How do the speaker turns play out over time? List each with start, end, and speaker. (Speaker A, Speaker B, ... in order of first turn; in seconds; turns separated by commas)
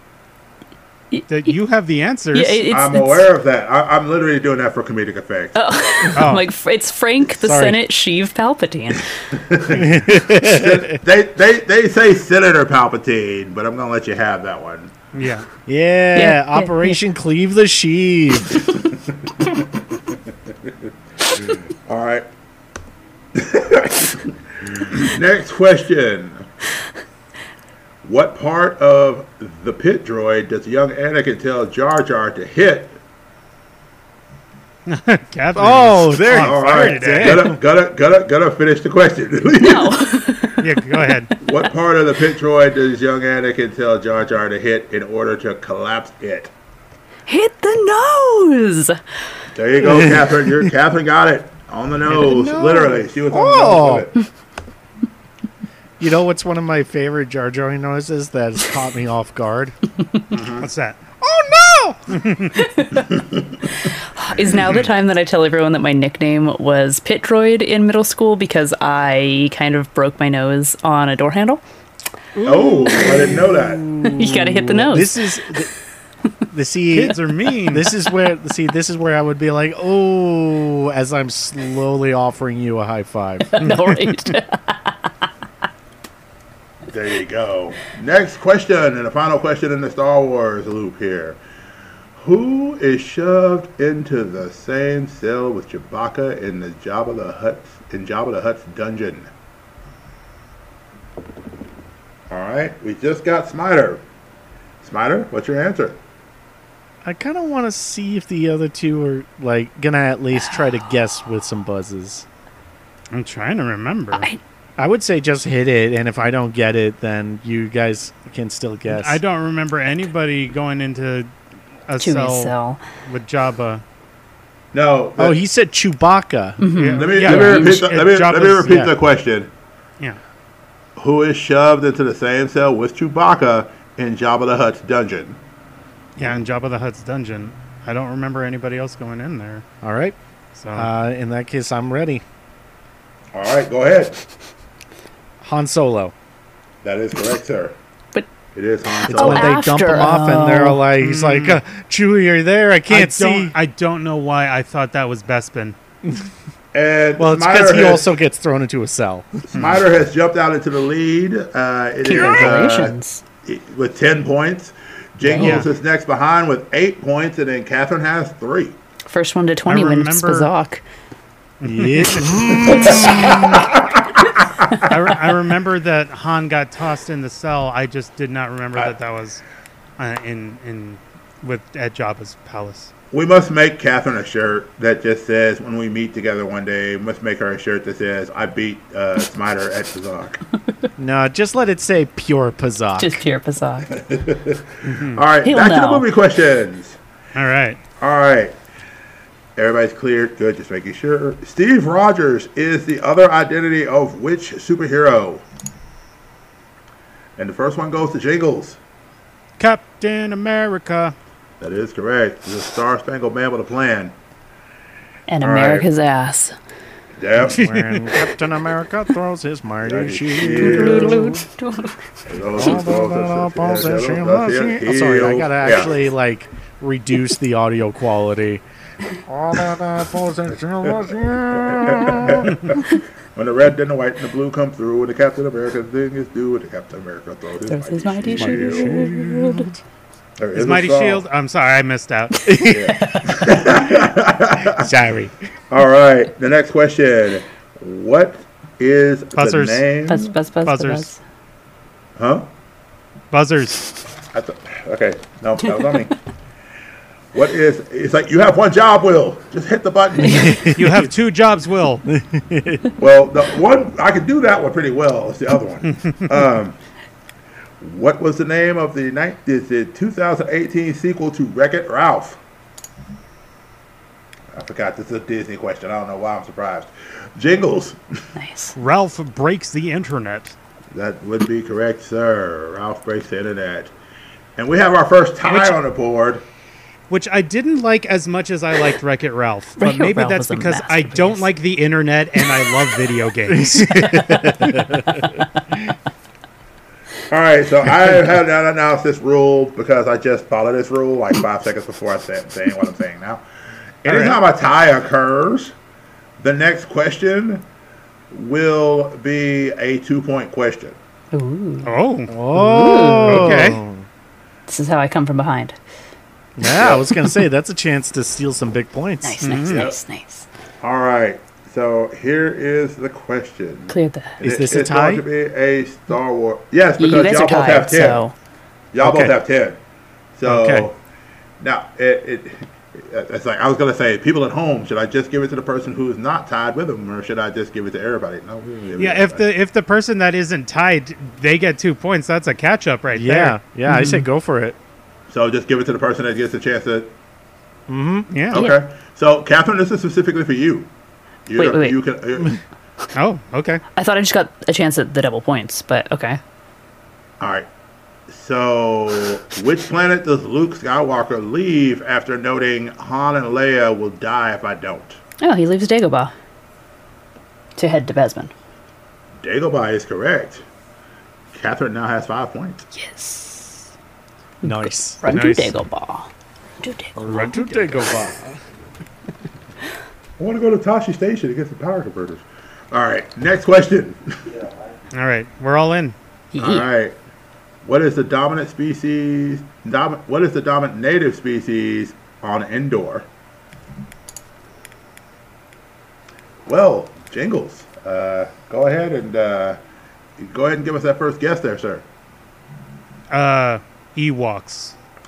Speaker A: 1.1-1.5, Speaker B: 1.3-2.6, Speaker A: 2.3-3.3, Speaker C: 2.7-5.6, Speaker A: 5.5-9.1, Speaker B: 6.2-6.5, Speaker D: 7.3-7.8, Speaker C: 9.3-14.9, Speaker D: 9.7-11.0, Speaker B: 15.1-15.5, Speaker D: 15.7-18.7, Speaker A: 16.1-17.0, Speaker C: 21.5-22.3, Speaker C: 23.3-26.5, Speaker C: 28.0-33.0, Speaker B: 34.9-37.5, Speaker D: 35.6-37.6, Speaker C: 36.3-40.0, Speaker A: 39.6-41.3, Speaker B: 40.6-41.3, Speaker C: 41.4-46.5, Speaker A: 47.3-49.0, Speaker C: 49.5-54.2, Speaker D: 49.8-50.7, Speaker D: 52.1-54.1, Speaker D: 56.0-59.8, Speaker C: 60.3-60.7, Speaker B: 60.6-61.0, Speaker D: 61.2-62.1, Speaker B: 62.1-62.6, Speaker A: 62.5-63.1, Speaker A: 63.8-71.6, Speaker B: 64.5-64.9, Speaker B: 72.4-73.3, Speaker C: 72.4-73.9, Speaker D: 72.9-75.7, Speaker A: 73.0-73.3, Speaker A: 74.0-75.2, Speaker D: 76.5-83.6, Speaker B: 76.9-77.9, Speaker A: 83.5-85.1, Speaker B: 83.6-84.4, Speaker C: 86.9-91.4, Speaker C: 92.2-99.3, Speaker C: 102.3-104.0, Speaker C: 104.8-106.0, Speaker D: 107.0-112.3, Speaker B: 113.1-114.3, Speaker A: 114.1-114.4, Speaker D: 114.8-119.2, Speaker B: 118.9-121.3, Speaker B: 121.9-122.5, Speaker A: 122.0-122.8, Speaker B: 123.0-123.8, Speaker C: 124.7-125.4, Speaker D: 125.2-126.7, Speaker A: 126.6-127.9, Speaker B: 126.8-128.9, Speaker C: 127.0-129.5, Speaker D: 128.7-128.9, Speaker C: 131.0-135.4, Speaker B: 136.2-139.6, Speaker D: 139.8-140.2, Speaker B: 140.6-140.9, Speaker D: 140.7-142.2, Speaker C: 143.3-144.2, Speaker D: 145.4-146.1, Speaker C: 146.8-147.8, Speaker C: 148.6-149.6, Speaker A: 148.9-150.8, Speaker D: 149.1-153.6, Speaker B: 151.0-151.6, Speaker B: 152.9-155.8, Speaker C: 156.7-158.1, Speaker D: 157.2-159.4, Speaker C: 159.5-168.8, Speaker B: 159.5-159.8, Speaker A: 162.0-163.2, Speaker A: 165.2-165.7, Speaker B: 165.4-165.7, Speaker A: 169.1-170.8, Speaker B: 169.7-170.5, Speaker B: 171.6-172.9, Speaker D: 171.6-173.8, Speaker A: 172.7-173.6, Speaker C: 172.9-174.9, Speaker B: 174.8-179.4, Speaker B: 180.0-182.9, Speaker C: 183.1-190.4, Speaker D: 191.0-193.2, Speaker A: 193.0-193.9, Speaker C: 193.9-197.0, Speaker B: 194.8-195.2, Speaker A: 195.4-196.1, Speaker B: 197.3-197.8, Speaker C: 198.0-198.6, Speaker C: 199.6-205.4, Speaker C: 207.4-208.8, Speaker B: 209.6-211.2, Speaker C: 211.6-214.1, Speaker A: 215.3-216.6, Speaker C: 215.4-215.9, Speaker C: 217.2-217.6, Speaker B: 217.4-218.3, Speaker D: 217.5-221.4, Speaker C: 219.8-221.2, Speaker A: 220.5-222.1, Speaker C: 222.3-225.9, Speaker D: 222.5-228.6, Speaker D: 229.3-232.6, Speaker C: 230.9-238.9, Speaker A: 237.7-239.7, Speaker D: 238.4-239.8, Speaker C: 240.4-241.2, Speaker B: 240.5-242.6, Speaker D: 242.5-243.0, Speaker A: 242.6-243.7, Speaker C: 242.7-244.9, Speaker D: 244.7-245.3, Speaker C: 245.7-250.3, Speaker B: 249.3-249.8, Speaker A: 250.1-251.2, Speaker B: 250.7-251.1, Speaker C: 252.2-252.5, Speaker B: 253.3-253.9, Speaker C: 254.3-256.2, Speaker C: 257.3-260.8, Speaker D: 260.2-261.1, Speaker B: 260.7-262.1, Speaker D: 262.1-262.9, Speaker C: 263.0-266.8, Speaker C: 267.8-272.4, Speaker C: 274.5-278.0, Speaker A: 278.4-278.8, Speaker B: 278.8-280.6, Speaker C: 280.9-283.9, Speaker C: 284.6-286.4, Speaker B: 285.5-285.8, Speaker B: 287.1-294.6, Speaker A: 289.8-291.5, Speaker D: 293.5-295.9, Speaker C: 297.3-303.4, Speaker C: 304.0-305.8, Speaker B: 304.1-304.4, Speaker C: 306.4-307.6, Speaker C: 308.3-311.0, Speaker A: 311.3-311.9, Speaker B: 311.9-312.3, Speaker D: 312.3-314.1, Speaker A: 312.5-313.6, Speaker B: 313.2-313.8, Speaker A: 314.7-315.8, Speaker D: 316.6-319.4, Speaker C: 316.7-317.2, Speaker A: 319.2-320.5, Speaker B: 319.4-319.9, Speaker C: 319.6-320.0, Speaker C: 320.8-328.2, Speaker A: 323.9-324.4, Speaker D: 324.4-325.2, Speaker A: 327.0-328.3, Speaker C: 328.9-329.8, Speaker D: 329.0-329.3, Speaker C: 330.4-331.0, Speaker D: 330.4-330.9, Speaker C: 331.6-339.4, Speaker B: 339.0-343.6, Speaker D: 343.1-344.8, Speaker A: 343.9-344.2, Speaker C: 345.3-347.1, Speaker D: 347.9-348.3, Speaker B: 348.3-348.7, Speaker C: 348.5-350.9, Speaker A: 348.5-348.8, Speaker C: 351.5-352.6, Speaker A: 351.6-352.0, Speaker B: 353.1-353.8, Speaker A: 354.0-356.4, Speaker C: 357.4-357.7, Speaker C: 358.3-365.2, Speaker A: 365.4-366.3, Speaker A: 367.8-368.5, Speaker C: 369.4-370.6, Speaker C: 371.5-372.9, Speaker A: 372.9-373.9, Speaker A: 374.6-376.3, Speaker D: 374.6-375.2, Speaker B: 375.3-375.7, Speaker A: 376.8-377.2, Speaker D: 377.2-378.6, Speaker B: 377.3-378.0, Speaker C: 380.4-384.4, Speaker B: 385.1-386.1, Speaker A: 386.5-386.9, Speaker C: 386.6-387.1, Speaker C: 387.8-393.3, Speaker C: 396.7-399.8, Speaker C: 400.4-402.1, Speaker B: 403.3-404.9